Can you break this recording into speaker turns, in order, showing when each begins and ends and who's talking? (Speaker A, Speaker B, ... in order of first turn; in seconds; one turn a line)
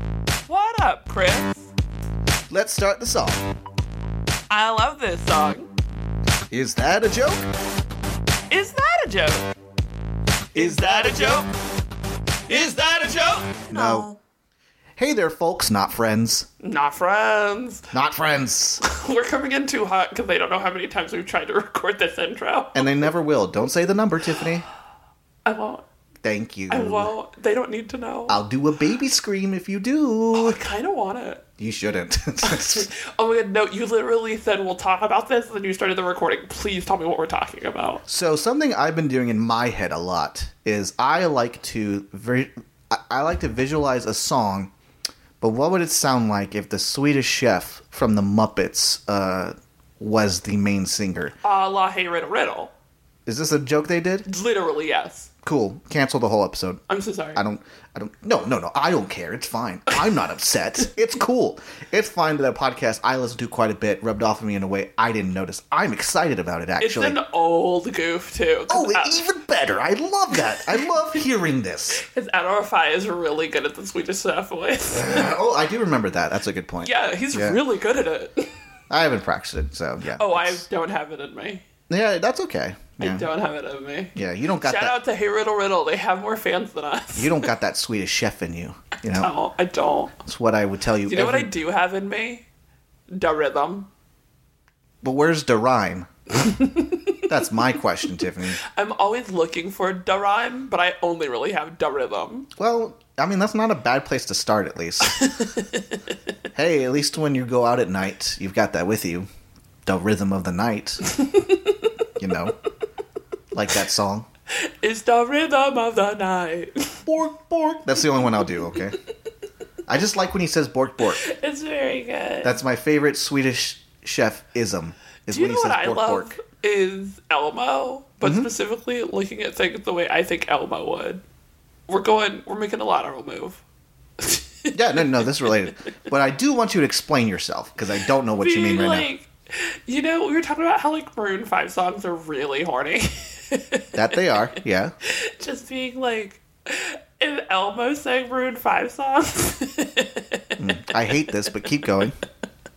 Speaker A: 0.5-1.7
Speaker B: 2.5-3.5
Speaker A: 4.5-5.7
Speaker B: 6.5-7.4
Speaker A: 8.5-9.5
Speaker A: 10.5-11.5
Speaker B: 10.5-11.4
Speaker A: 12.5-14.2
Speaker B: 13.7-14.1
Speaker B: 15.0-16.5
Speaker A: 16.6-17.9
Speaker B: 17.9-18.8
Speaker A: 18.8-23.0
Speaker B: 22.7-24.6
Speaker A: 25.4-25.8
Speaker B: 26.2-27.1
Speaker A: 26.7-28.4
Speaker B: 28.3-30.6
Speaker A: 30.3-31.4
Speaker B: 31.6-32.9
Speaker A: 32.4-38.0
Speaker B: 38.1-44.7
Speaker B: 45.4-51.3
Speaker A: 51.4-52.7
Speaker B: 53.2-54.2
Speaker A: 54.2-55.3
Speaker B: 55.4-56.8
Speaker A: 56.9-57.4
Speaker B: 57.4-67.2
Speaker A: 66.8-69.2
Speaker B: 68.7-72.0
Speaker A: 71.9-75.3
Speaker B: 74.9-77.6
Speaker A: 76.8-78.5
Speaker B: 78.9-80.6
Speaker A: 80.2-81.6
Speaker B: 81.9-83.3
Speaker A: 83.0-87.5
Speaker B: 84.1-85.0
Speaker B: 87.2-89.3
Speaker A: 89.1-90.1
Speaker B: 90.2-91.5
Speaker A: 91.1-92.4
Speaker A: 93.1-93.9
Speaker B: 95.0-96.1
Speaker A: 96.4-97.2
Speaker B: 97.2-98.6
Speaker A: 98.6-102.5
Speaker B: 102.6-105.3
Speaker A: 105.0-105.8
Speaker B: 106.5-109.3
Speaker B: 109.8-111.0
Speaker A: 111.0-111.9
Speaker B: 112.2-112.5
Speaker B: 113.5-114.3
Speaker A: 114.6-117.1
Speaker B: 117.0-119.0
Speaker B: 119.9-121.2
Speaker A: 121.0-122.6
Speaker B: 122.4-126.4
Speaker A: 125.3-131.2
Speaker B: 128.2-128.5
Speaker A: 131.9-133.6
Speaker A: 134.2-135.4
Speaker B: 134.7-139.1
Speaker A: 138.4-144.2
Speaker B: 143.9-144.9
Speaker A: 145.0-150.6
Speaker B: 150.6-152.2